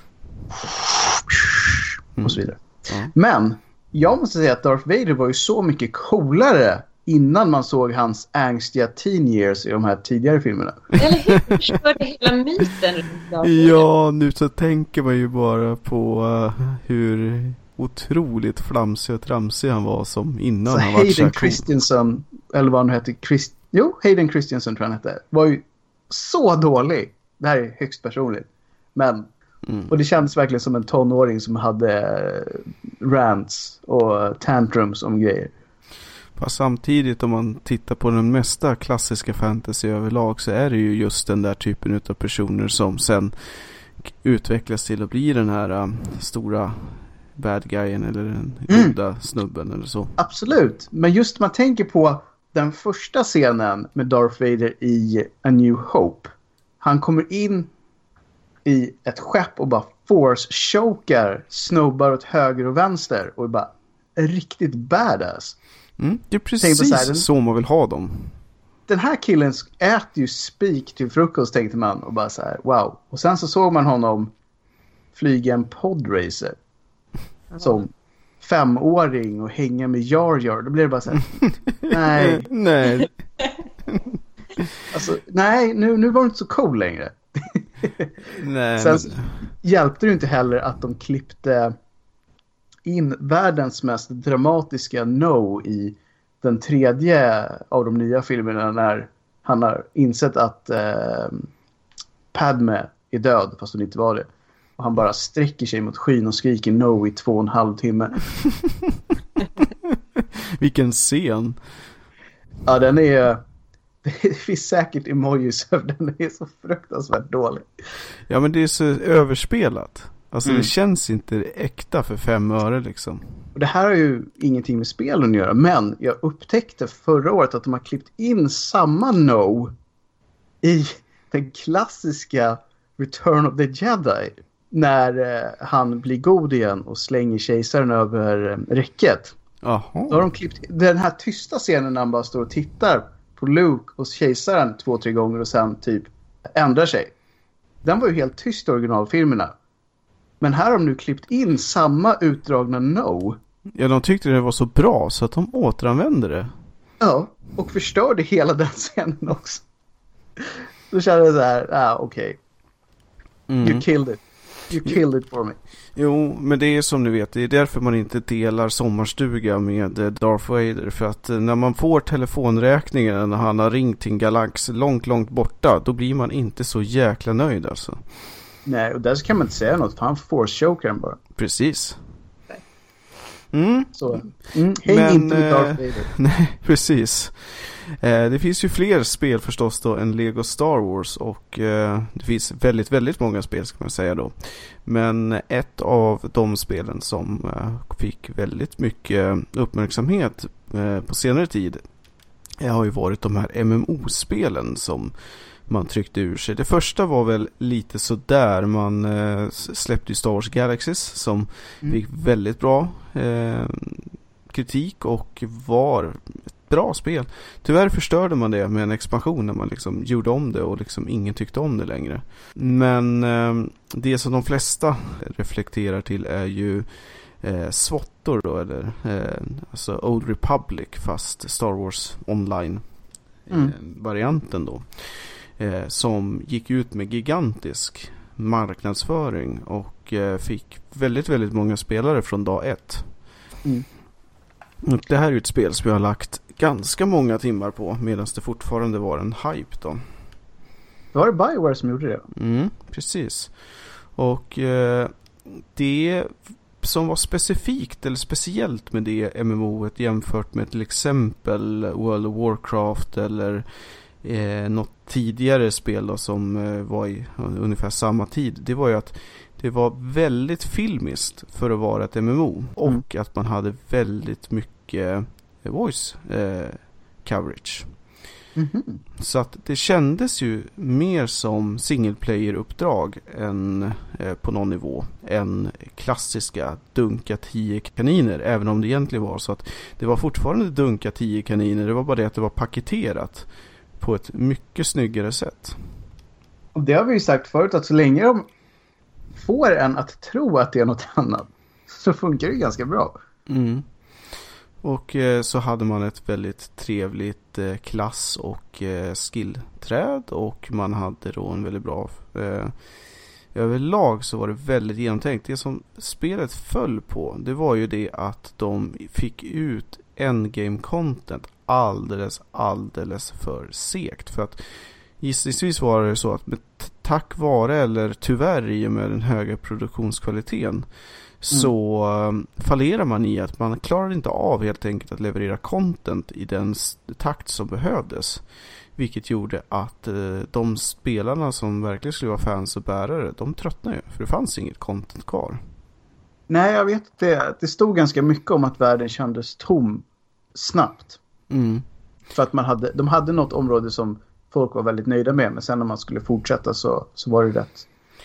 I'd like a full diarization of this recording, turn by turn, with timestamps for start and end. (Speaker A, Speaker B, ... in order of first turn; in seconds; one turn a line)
Speaker A: 0.6-10.9
Speaker B: 2.2-3.1
Speaker C: 11.0-13.8
Speaker B: 11.2-11.6
Speaker B: 13.4-21.7
Speaker A: 20.7-29.3
Speaker A: 29.9-35.5
Speaker B: 36.4-50.1
Speaker A: 48.7-48.9
Speaker A: 50.2-57.7
Speaker A: 58.6-65.5
Speaker B: 66.0-68.3
Speaker A: 66.6-67.2
Speaker A: 68.9-74.3
Speaker A: 75.1-76.5
Speaker A: 77.5-77.9
Speaker A: 78.4-82.5
Speaker B: 81.5-83.2
Speaker B: 83.9-84.6
Speaker A: 84.9-88.1
Speaker B: 88.3-89.4
Speaker A: 88.8-91.7
Speaker A: 92.8-101.5
Speaker A: 102.3-108.2
Speaker B: 109.6-111.6
Speaker A: 112.7-113.4
Speaker A: 114.0-117.7
Speaker B: 118.3-123.2
Speaker A: 120.4-120.7
Speaker A: 123.5-129.7
Speaker A: 130.6-139.3
Speaker B: 139.6-140.2
Speaker A: 140.1-147.1
Speaker A: 147.8-149.5
Speaker A: 150.4-153.4
Speaker B: 153.7-156.5
Speaker A: 157.0-159.6
Speaker A: 160.4-162.4
Speaker B: 163.5-163.8
Speaker A: 163.6-165.6
Speaker B: 165.9-178.0
Speaker A: 178.7-181.2
Speaker B: 181.3-182.0
Speaker B: 183.5-184.2
Speaker A: 183.9-186.1
Speaker B: 184.8-201.8
Speaker B: 202.6-205.1
Speaker B: 205.7-232.8
Speaker B: 233.4-243.1
Speaker B: 244.8-250.1
Speaker A: 251.1-252.2
Speaker B: 252.3-263.6
Speaker B: 264.2-277.9
Speaker A: 278.6-279.0
Speaker B: 279.2-293.5
Speaker B: 294.0-295.8
Speaker A: 296.7-298.4
Speaker A: 299.4-303.1
Speaker B: 303.5-303.9
Speaker B: 304.8-312.7
Speaker B: 313.5-330.9
Speaker B: 331.4-338.4
Speaker B: 338.9-345.6
Speaker A: 346.5-351.2
Speaker B: 351.5-351.8
Speaker A: 352.3-357.9